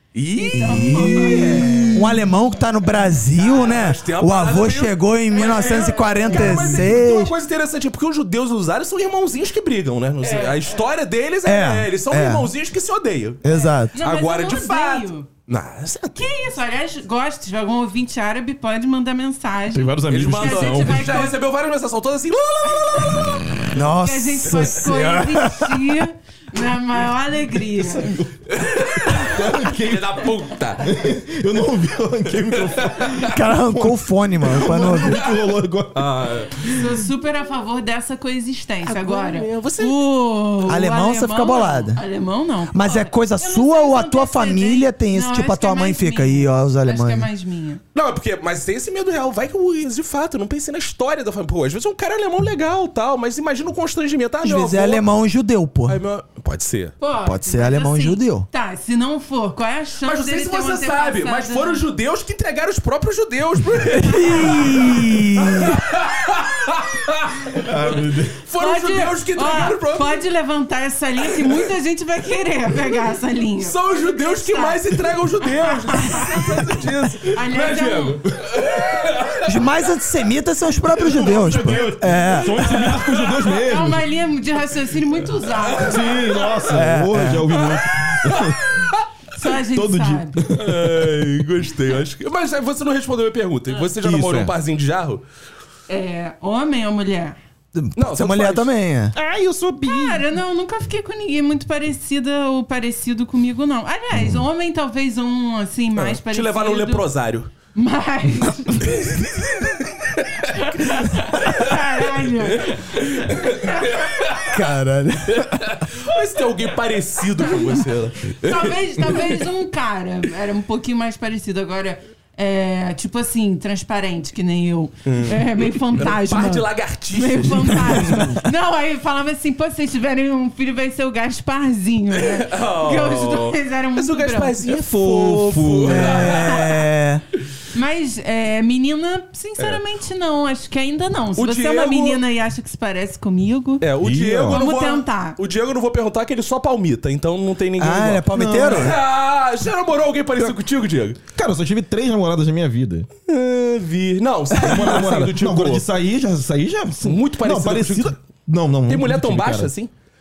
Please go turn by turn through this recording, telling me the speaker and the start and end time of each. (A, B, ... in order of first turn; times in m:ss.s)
0:00.1-0:02.1 A
0:00.3-0:02.3 B
0:00.6-0:07.3 C
0:01.3-0:01.9 D
0:03.3-0:16.2 A
0:05.3-0:06.9 B
0:10.2-0:10.7 B
0:11.4-0:12.5 C
0:13.4-0:13.9 C
0:13.4-0:15.3 B
0:16.1-0:21.4 B
0:19.7-0:21.3 D
0:20.1-0:23.7 A
0:23.0-0:28.3 B
0:23.7-0:25.9 C
0:27.8-0:28.2 D
0:28.4-0:30.9 A
0:29.0-0:37.0 D
0:32.4-0:33.3 A
0:33.3-0:35.3 C
0:35.9-0:36.7 A
0:36.6-0:47.8 B
0:38.8-0:40.0 A
0:40.6-0:42.0 C
0:42.7-0:47.3 C
0:47.9-0:55.0 A
0:54.4-0:56.0 C
0:55.9-0:56.9 A
0:57.0-1:01.8 B
0:57.2-0:58.4 C
1:00.0-1:10.2 A
1:04.0-1:05.8 C
1:04.1-1:04.9 B
1:07.5-1:08.4 D
1:08.5-1:18.2 B
1:11.3-1:11.6 A
1:13.6-1:19.6 A
1:19.4-1:22.7 C
1:21.0-1:23.4 A
1:21.1-1:24.0 D
1:23.2-1:26.2 B
1:25.6-1:26.9 A
1:25.7-1:28.6 D
1:26.7-1:27.5 C
1:27.5-1:29.1 A
1:29.3-1:30.4 B
1:29.7-1:31.3 D
1:30.5-1:35.2 A
1:34.0-1:34.5 D
1:35.9-1:37.4 B
1:37.7-1:39.2 C
1:38.0-1:38.7 A
1:39.1-1:40.2 D
1:39.8-1:47.1 B
1:46.0-1:47.5 A
1:47.7-1:49.4 B
1:48.8-1:51.8 A
1:50.6-1:52.8 B
1:52.4-1:54.6 A
1:53.4-1:53.8 B
1:54.4-1:55.8 C
1:55.2-1:59.4 A
1:58.4-2:14.8 B
2:05.0-2:08.3 A
2:12.1-2:16.7 A
2:14.6-2:16.3 D
2:15.8-2:17.2 C
2:16.2-2:16.8 B
2:17.7-2:23.9 B
2:21.4-2:22.2 A
2:23.8-2:31.2 A
2:24.0-2:24.6 D
2:24.5-2:25.4 B
2:27.8-2:29.0 C
2:28.3-2:29.0 D
2:31.3-2:33.1 D
2:33.2-2:35.8 A
2:34.5-2:39.7 D
2:37.0-2:38.2 A
2:38.8-2:39.9 A